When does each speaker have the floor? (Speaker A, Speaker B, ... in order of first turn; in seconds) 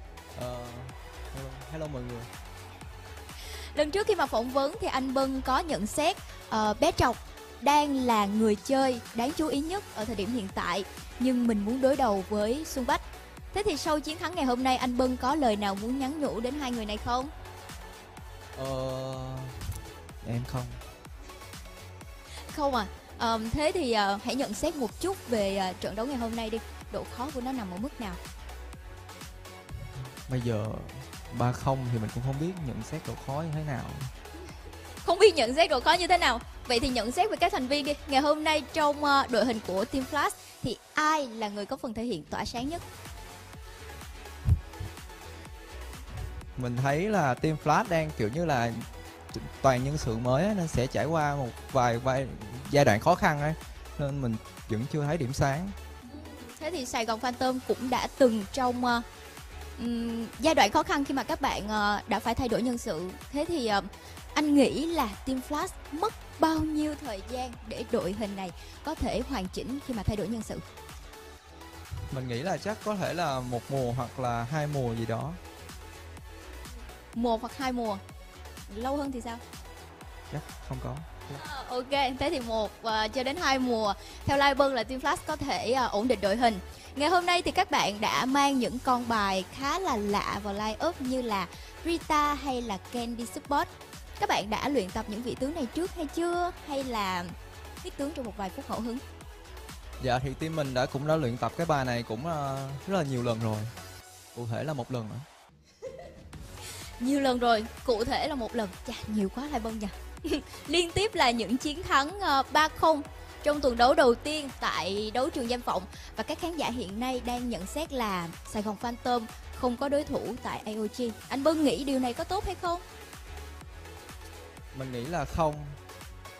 Speaker A: 0.3-2.3, 18.5-19.6, 20.2-20.8, 30.3-34.1, 46.6-55.7, 72.1-75.4, 80.3-81.4, 100.0-103.7, 104.3-105.2, 124.7-125.8
Speaker B: 3.7-17.3, 22.5-28.2, 35.0-42.8, 56.1-59.0, 59.8-70.6, 77.1-78.0, 78.7-79.4, 81.3-99.0, 107.0-122.8